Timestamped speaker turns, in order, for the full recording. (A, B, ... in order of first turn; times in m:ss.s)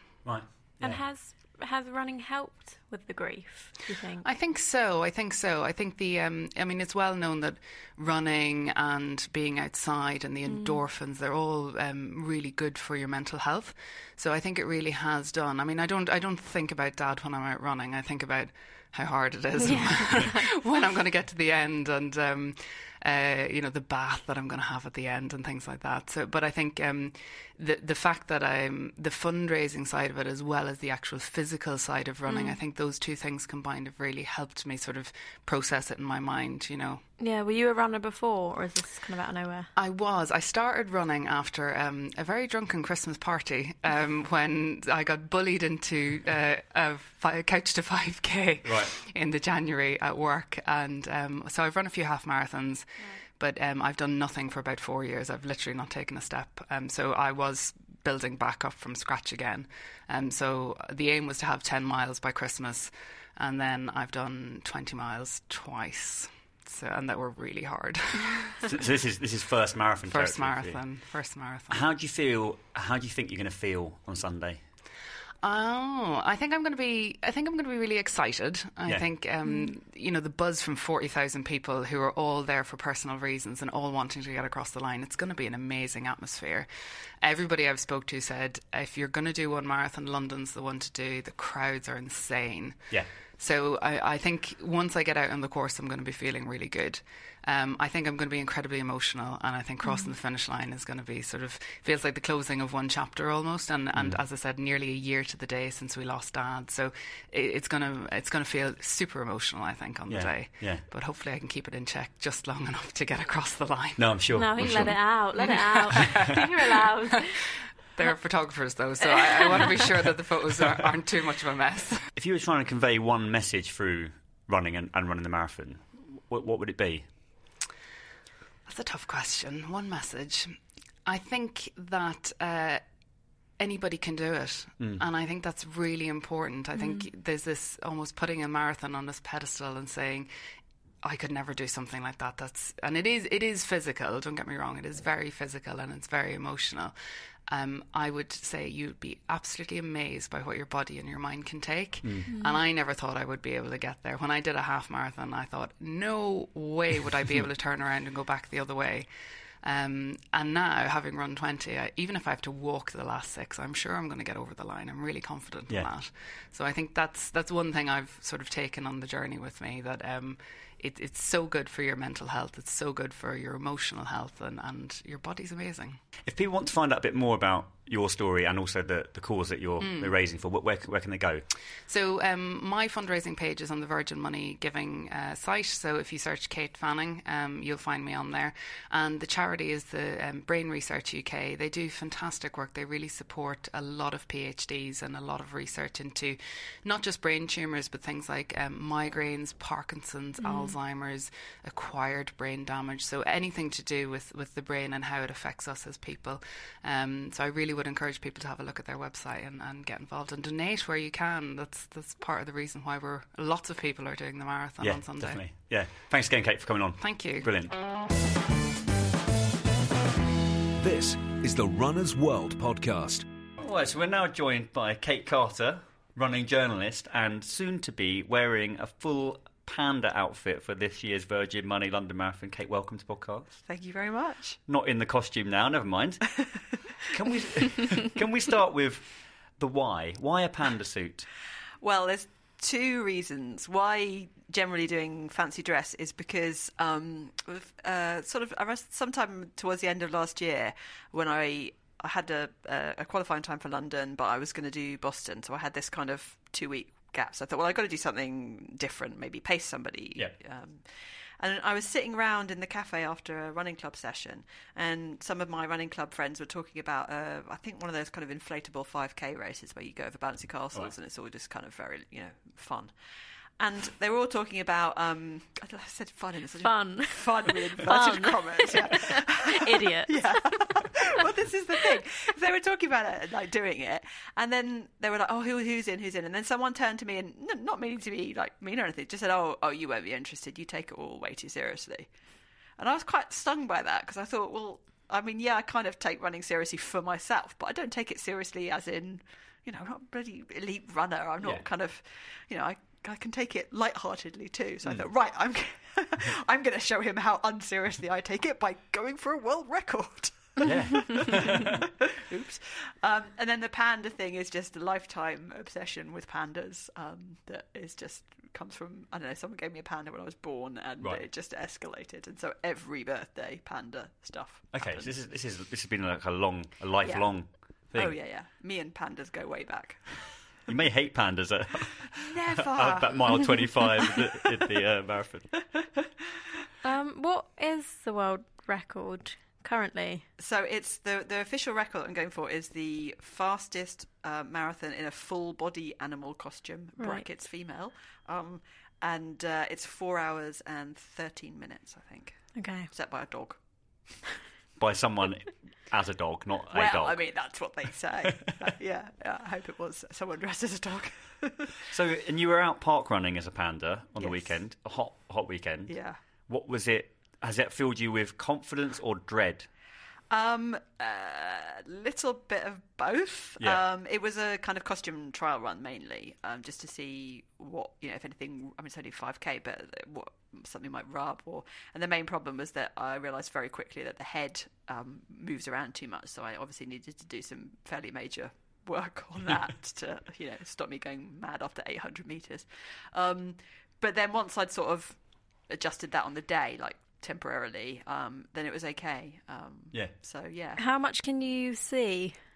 0:00.2-0:01.0 A
0:00.8-0:04.3 B
0:04.2-0:37.0 C
0:10.5-0:10.8 B
0:19.6-0:20.6 B
0:32.3-0:32.6 B
0:37.2-0:39.7 B
0:39.8-1:08.6 C
0:48.6-0:48.9 A
1:08.6-1:10.8 A
1:10.1-1:11.8 C
1:11.7-1:14.6 A
1:15.4-1:57.2 C
1:19.4-1:19.7 B
1:39.8-1:40.1 B
1:43.9-1:44.2 A
1:50.1-1:50.8 A
1:54.0-1:55.3 A
1:54.3-1:57.4 B
1:56.0-1:56.2 A
1:58.0-2:02.1 C
1:59.0-1:59.8 B
2:02.2-2:07.1 A
2:08.7-2:12.8 C
2:13.3-2:20.3 C
2:14.8-2:15.0 A
2:16.8-2:17.1 B
2:21.0-2:26.9 C
2:27.5-2:39.1 C
2:32.0-2:32.3 A
2:32.3-2:32.6 B
2:39.6-2:56.0 C
2:56.3-3:01.5 A
2:59.8-3:00.2 C
3:01.9-3:35.5 C
3:20.4-3:20.8 B
3:34.8-3:37.8 A
3:37.0-3:37.5 C
3:40.8-3:43.2 D
3:43.6-3:53.6 A
3:53.7-3:54.6 E
3:54.7-4:01.3 A
4:01.8-4:33.0 E
4:33.6-4:52.1 E
4:36.6-4:37.3 B
4:37.8-4:40.6 B
4:52.8-5:25.2 E
5:10.6-5:11.8 A
5:24.7-5:28.2 A
5:27.0-5:30.4 E
5:30.7-5:35.6 A
5:32.2-5:33.8 E
5:36.8-5:40.3 B
5:40.4-5:54.1 E
5:47.0-5:47.3 B
5:52.5-5:52.9 B
5:54.8-5:57.8 A
5:56.7-6:01.7 E
6:01.9-6:09.7 A
6:04.2-6:04.6 E
6:05.9-6:06.2 E
6:10.3-6:40.8 E
6:40.8-6:42.4 B